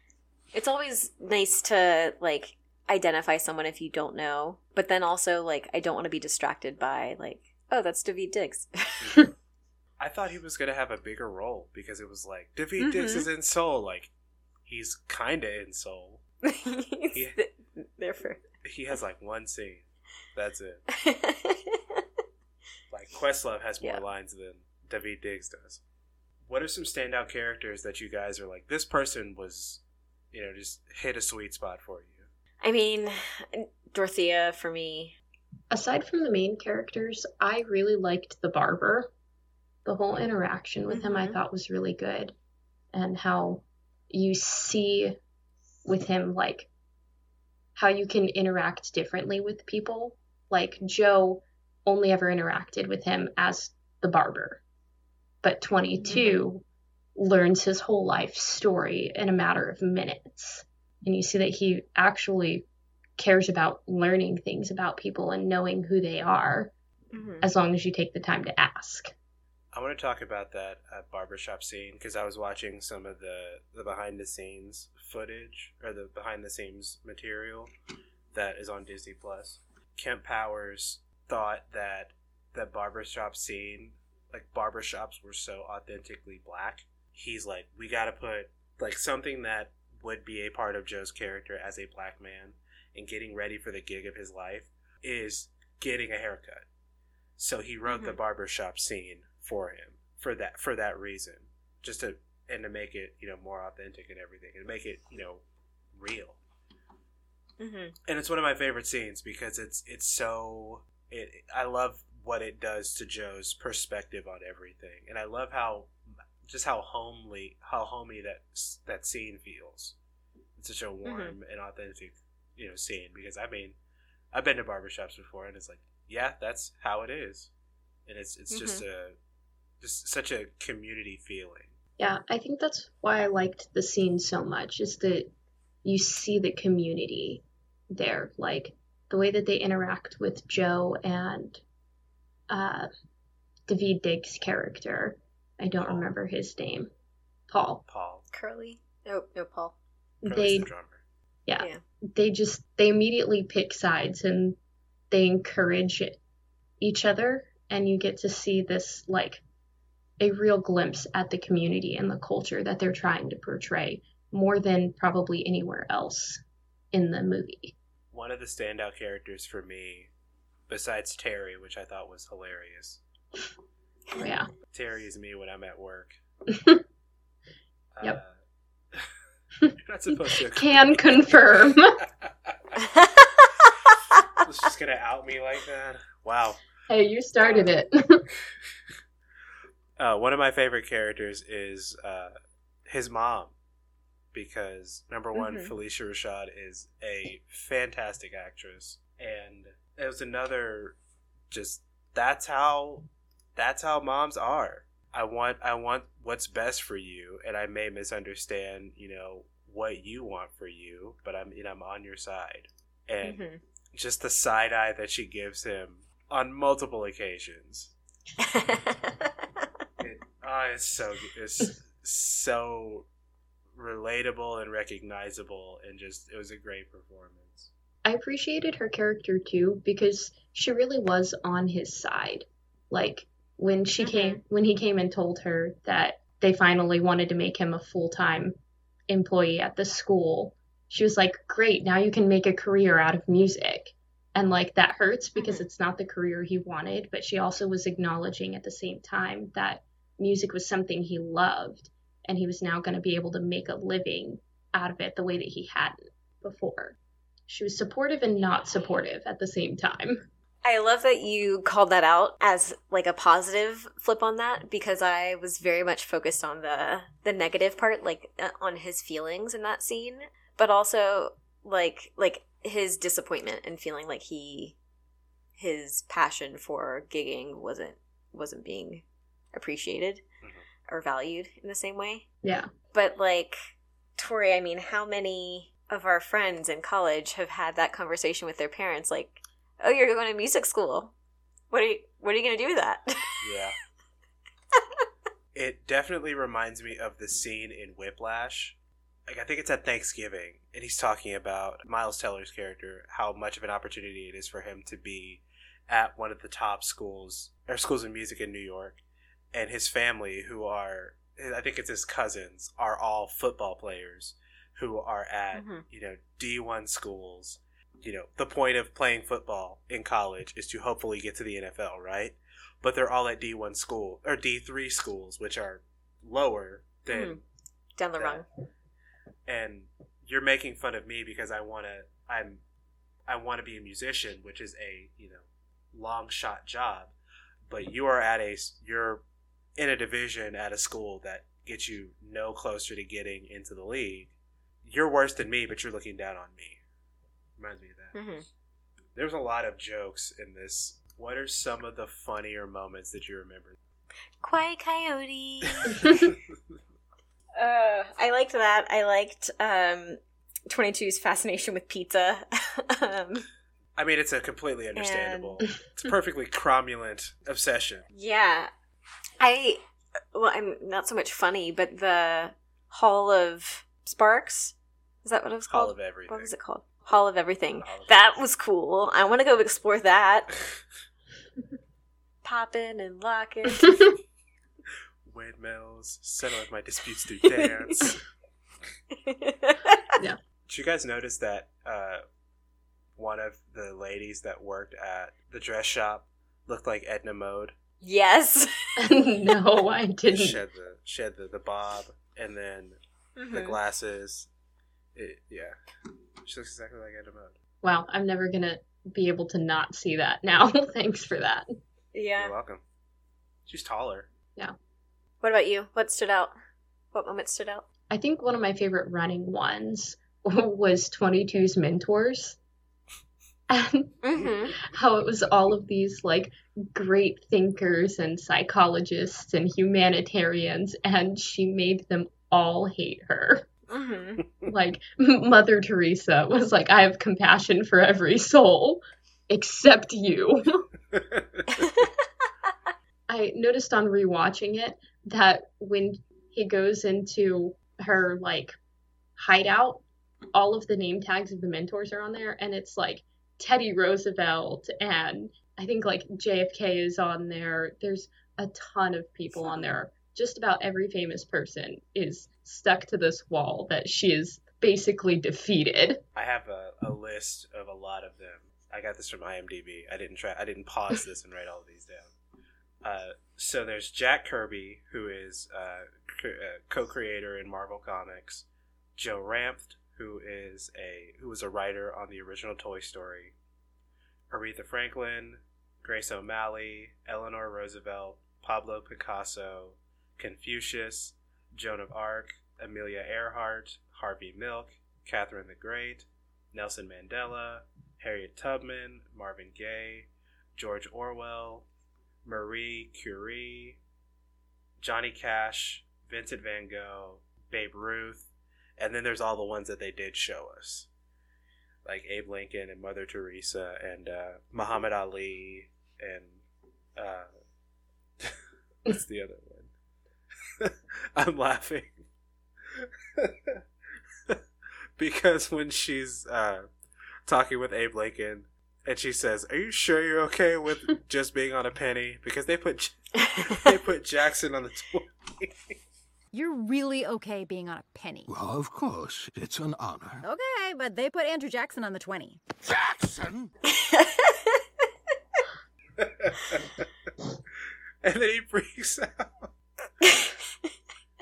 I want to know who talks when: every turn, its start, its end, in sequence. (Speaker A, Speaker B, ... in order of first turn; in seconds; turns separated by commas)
Speaker A: 0.5-9.2, Speaker B: 9.0-9.3, Speaker B: 10.0-14.1, Speaker A: 12.8-13.3, Speaker B: 14.7-16.2, Speaker A: 16.4-18.4, Speaker B: 18.6-20.8, Speaker A: 20.9-22.0, Speaker B: 22.9-25.8, Speaker B: 26.5-29.8, Speaker B: 30.3-32.3, Speaker A: 32.6-35.1, Speaker C: 35.7-39.1, Speaker C: 39.9-42.3, Speaker A: 40.9-41.4, Speaker C: 42.9-45.2, Speaker C: 45.9-46.7, Speaker C: 47.8-54.6, Speaker C: 55.4-56.6, Speaker A: 56.0-56.4, Speaker C: 57.2-62.6, Speaker C: 63.2-66.7, Speaker A: 67.1-67.5, Speaker C: 67.4-69.1, Speaker B: 69.7-77.7, Speaker B: 78.3-96.7, Speaker B: 97.4-105.4, Speaker A: 97.9-98.2, Speaker B: 106.0-106.4, Speaker A: 107.6-107.9, Speaker B: 108.1-115.9, Speaker B: 116.5-120.0, Speaker B: 120.6-123.8, Speaker A: 121.0-121.4, Speaker B: 124.3-127.5, Speaker B: 128.1-129.2, Speaker A: 128.5-128.8, Speaker B: 129.8-131.7, Speaker C: 132.0-135.3, Speaker C: 135.8-141.6, Speaker C: 142.5-142.9, Speaker C: 143.7-146.9, Speaker B: 145.8-146.1, Speaker C: 147.5-147.8, Speaker B: 147.9-148.2, Speaker A: 148.3-149.8, Speaker C: 150.2-150.7, Speaker B: 150.2-151.0, Speaker C: 151.5-154.6, Speaker C: 155.1-156.2, Speaker C: 156.8-159.4, Speaker C: 160.2-166.4, Speaker C: 166.9-167.7, Speaker B: 168.1-170.1, Speaker B: 170.7-173.0, Speaker C: 174.2-174.5, Speaker B: 174.7-176.2, Speaker C: 176.5-176.8, Speaker B: 177.9-178.4, Speaker B: 179.8-182.8, Speaker C: 180.5-182.0, Speaker A: 182.8-184.2, Speaker B: 184.4-186.6, Speaker C: 186.9-188.2, Speaker B: 187.4-187.8, Speaker B: 190.0-192.3, Speaker B: 192.9-193.5, Speaker B: 194.3-201.0, Speaker A: 195.3-195.7, Speaker B: 201.5-213.4, Speaker A: 213.2-213.6, Speaker B: 213.9-217.9, Speaker A: 218.4-219.6, Speaker B: 220.0-223.1, Speaker B: 223.8-227.7, Speaker C: 228.1-238.5, Speaker A: 234.0-234.4, Speaker C: 239.1-257.0, Speaker A: 245.4-245.7, Speaker C: 257.5-260.2, Speaker A: 260.6-274.8, Speaker A: 275.6-279.0, Speaker A: 279.5-280.2, Speaker A: 280.9-282.3, Speaker C: 282.4-282.7, Speaker A: 282.9-283.6, Speaker A: 284.2-291.1, Speaker A: 291.7-293.4, Speaker B: 293.4-293.8, Speaker B: 295.5-298.8, Speaker B: 299.3-309.0, Speaker B: 309.5-327.4, Speaker A: 315.5-315.9, Speaker A: 327.1-327.4, Speaker A: 328.0-328.4, Speaker B: 328.2-328.4, Speaker B: 329.5-332.6, Speaker B: 333.3-337.1, Speaker B: 337.7-339.2, Speaker B: 339.8-344.3, Speaker B: 344.9-346.8, Speaker B: 347.6-348.2, Speaker A: 348.1-348.4, Speaker B: 349.1-353.8, Speaker A: 354.4-356.0, Speaker C: 355.9-356.3, Speaker B: 355.9-356.4, Speaker A: 357.6-363.4, Speaker B: 364.0-368.1, Speaker A: 365.0-365.7, Speaker A: 368.1-368.7, Speaker A: 369.4-369.8, Speaker A: 370.3-380.5, Speaker B: 375.7-376.5, Speaker B: 377.8-378.1, Speaker A: 382.4-384.0, Speaker B: 385.3-388.2, Speaker A: 387.5-388.1, Speaker A: 389.2-390.1, Speaker B: 390.7-392.2, Speaker B: 393.2-397.8, Speaker A: 398.0-399.1, Speaker C: 399.0-400.6, Speaker B: 400.3-403.0, Speaker A: 403.4-403.8, Speaker B: 403.5-404.5, Speaker B: 405.1-405.8, Speaker B: 406.5-407.6, Speaker C: 407.8-411.8, Speaker A: 412.1-412.5, Speaker B: 412.4-412.8, Speaker B: 413.7-414.3, Speaker A: 415.4-416.5, Speaker A: 417.1-417.9, Speaker C: 418.1-422.6, Speaker C: 423.7-424.1, Speaker A: 424.2-424.8, Speaker C: 424.8-433.7, Speaker A: 433.9-434.4, Speaker C: 434.7-440.9, Speaker B: 441.1-441.7, Speaker A: 441.7-442.1, Speaker C: 443.3-448.8, Speaker C: 449.4-466.2, Speaker B: 466.4-472.3, Speaker B: 473.0-478.6, Speaker B: 479.2-483.5, Speaker B: 484.5-501.9, Speaker B: 502.4-504.0, Speaker B: 505.0-511.1, Speaker B: 512.0-516.6, Speaker B: 517.2-517.5, Speaker B: 519.1-519.9, Speaker B: 520.8-522.1, Speaker B: 523.0-523.8, Speaker B: 525.2-526.9, Speaker B: 527.5-536.0, Speaker D: 536.5-538.5, Speaker E: 538.5-540.4, Speaker D: 540.4-542.6, Speaker E: 543.0-543.7, Speaker A: 543.9-544.8, Speaker B: 546.2-547.0, Speaker B: 548.2-549.7, Speaker A: 550.2-550.5